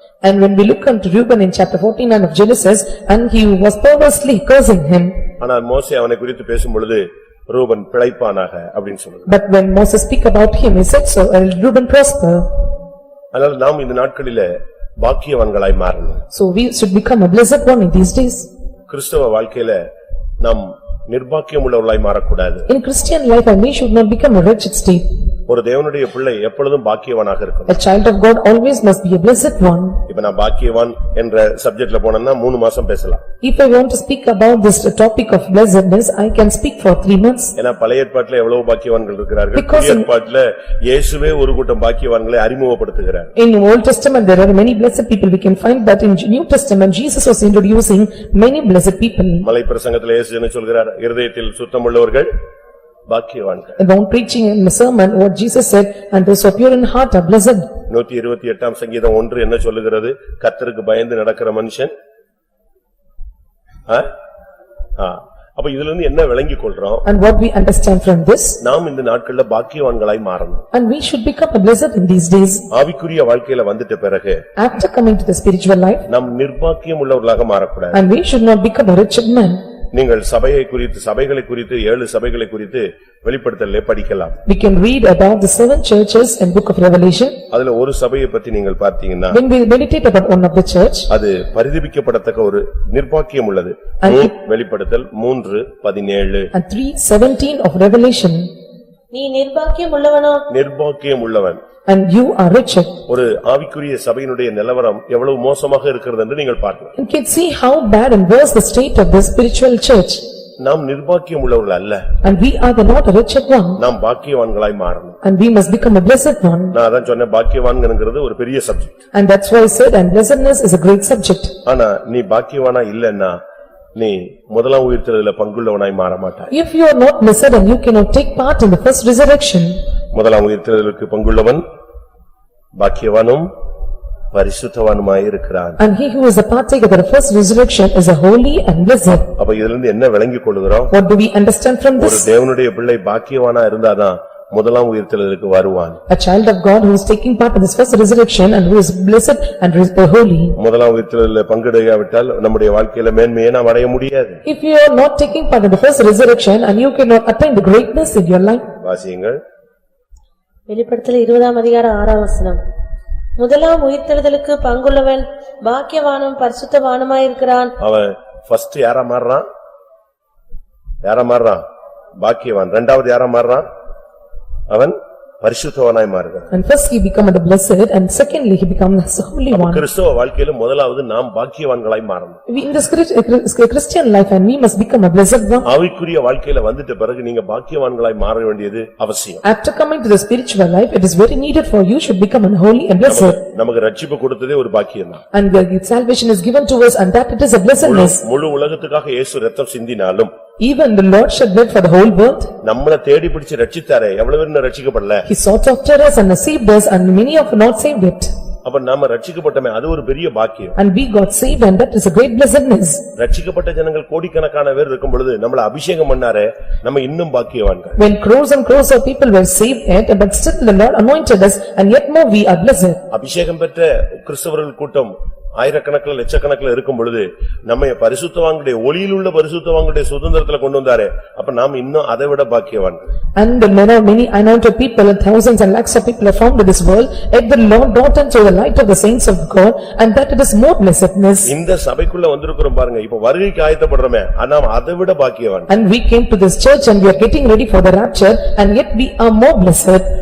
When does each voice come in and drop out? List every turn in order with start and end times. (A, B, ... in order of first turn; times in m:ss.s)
0:00.2-0:05.2 A
0:05.4-0:09.3 B
0:09.3-0:12.5 A
0:13.3-0:16.2 B
0:16.3-0:18.5 A
0:18.9-0:19.8 B
0:20.4-0:22.7 B
0:22.7-0:25.0 A
0:25.5-0:27.8 B
0:27.7-0:30.0 A
0:30.1-0:33.2 B
0:33.4-0:37.5 A
0:37.6-0:43.3 B
0:39.5-0:40.1 A
0:43.4-0:49.5 A
0:49.4-0:52.3 B
0:53.1-0:53.8 B
0:53.8-0:57.7 A
0:57.9-1:01.9 B
1:05.0-1:07.0 B
1:07.0-1:08.6 A
1:08.6-1:10.6 B
1:10.7-1:12.6 A
1:12.7-1:14.4 B
1:14.6-1:16.1 A
1:16.1-1:18.0 B
1:17.9-1:19.6 A
1:19.9-1:24.4 B
1:24.5-1:27.4 A
1:27.5-1:29.4 B
1:29.3-1:31.1 A
1:31.1-1:36.5 B
1:34.0-1:34.3 A
1:36.5-1:38.5 A
1:39.1-1:40.5 C
1:40.5-1:41.6 B
1:41.9-1:43.0 A
1:43.1-1:46.9 B
1:47.0-1:50.2 A
1:50.6-1:52.0 B
1:52.2-1:53.8 A
1:53.8-1:55.2 B
1:55.2-1:56.8 A
1:56.7-1:58.9 B
1:59.1-2:01.6 A
2:01.7-2:03.4 B
2:04.0-2:06.5 B
2:06.5-2:09.8 A
2:10.1-2:11.6 B
2:12.8-2:13.5 B
2:14.3-2:15.8 B
2:15.8-2:19.3 A
2:19.4-2:20.9 B
2:20.9-2:22.3 A
2:22.0-2:26.0 B
2:26.1-2:30.6 A
2:30.6-2:34.4 B
2:34.5-2:38.7 A
2:38.8-2:39.4 B
2:40.7-2:42.6 C
2:43.4-2:47.7 C
2:47.8-2:49.5 B
2:51.0-2:51.6 B
2:52.2-2:53.7 B
2:54.7-2:56.5 B
2:56.5-2:59.8 A
2:59.5-3:02.4 B
3:02.5-3:05.7 A
3:05.6-3:09.4 B
3:09.4-3:13.4 A
3:13.1-3:15.2 B
3:15.3-3:18.2 A
3:17.8-3:20.3 B
3:20.6-3:22.5 A
3:22.6-3:25.2 B
3:25.3-3:28.3 A
3:28.6-3:30.8 B
3:30.8-3:33.0 A
3:33.2-3:38.0 B
3:38.0-3:43.0 A
3:43.1-3:53.0 B
3:53.4-4:01.5 A
4:01.5-4:05.7 B
4:05.7-4:10.0 A